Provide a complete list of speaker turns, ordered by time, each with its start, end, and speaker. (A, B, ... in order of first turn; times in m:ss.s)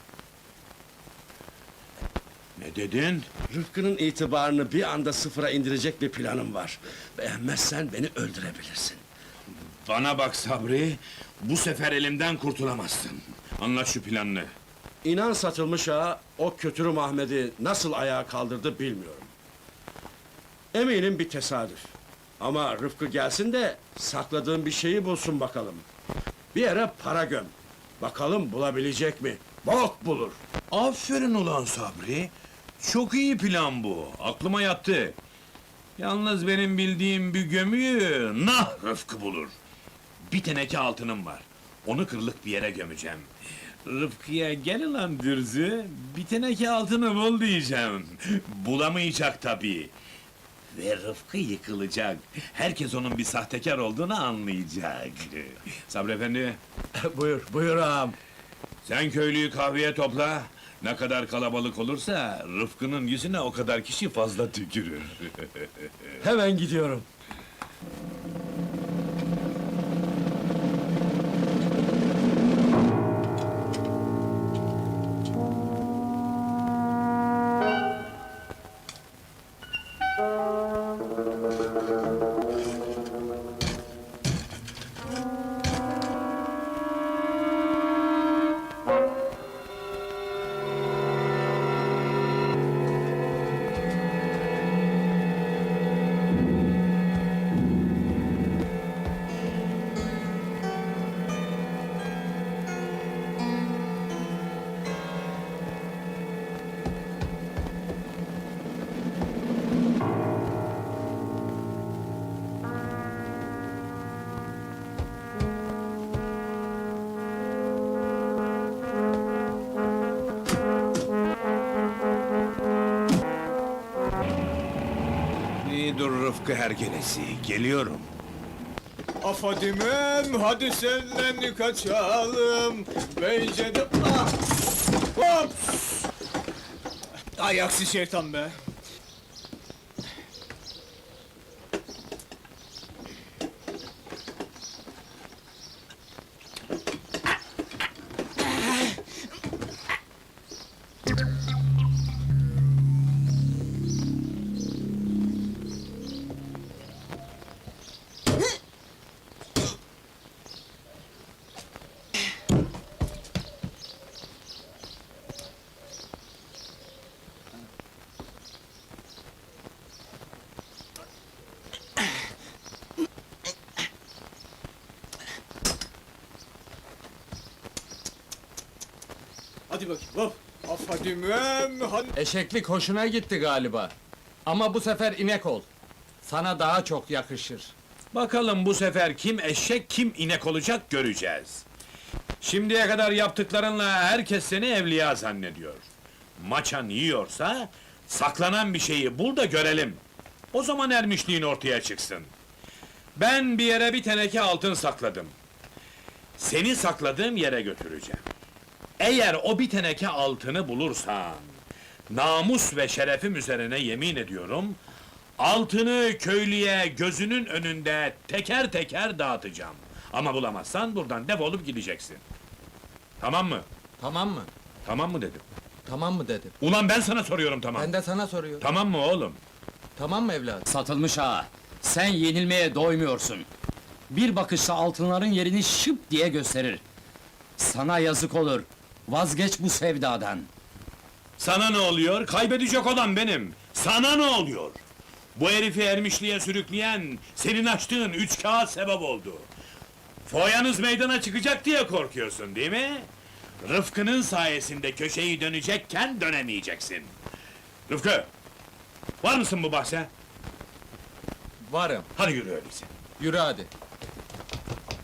0:02.6-0:03.3 A
0:03.5-0:09.0 B
0:09.8-0:14.5 A
0:15.0-0:19.3 B
0:20.7-0:21.8 B
0:22.4-0:25.8 B
0:26.5-0:30.4 B
0:30.7-0:35.2 A
0:36.0-0:39.5 A
0:40.3-0:43.3 A
0:43.8-0:49.9 A
0:50.7-0:56.6 A
0:56.9-0:58.2 B
0:58.8-1:05.9 A
1:06.2-1:07.0 B
2:05.6-2:08.1 A
2:09.2-2:14.4 C
2:15.1-2:15.7 C
2:17.4-2:18.6 C
2:59.7-3:02.1 C
3:02.2-3:03.9 D
3:04.4-3:05.6 D
3:06.2-3:07.7 D
3:08.1-3:11.6 A
3:12.4-3:20.0 A
3:20.5-3:22.3 A
3:23.1-3:25.3 A
3:26.4-3:28.2 A
3:29.0-3:31.5 A
3:32.1-3:34.8 A
3:35.4-3:42.2 A
3:43.2-3:43.6 A
3:44.0-3:44.5 D
3:44.8-3:45.4 A
3:45.8-3:46.5 D
3:46.6-3:47.9 A
3:47.7-3:48.6 D
3:48.6-3:49.4 A
3:50.0-3:50.6 D
3:50.7-3:53.5 E
3:54.1-3:56.8 E
3:57.6-4:00.5 E
4:01.4-4:04.8 A
4:05.4-4:09.5 A
4:10.2-4:13.1 A
4:13.6-4:17.1 A
4:17.9-4:18.3 A
4:19.2-4:20.1 A
4:21.6-4:22.1 D
4:22.2-4:22.9 A
4:23.2-4:23.7 D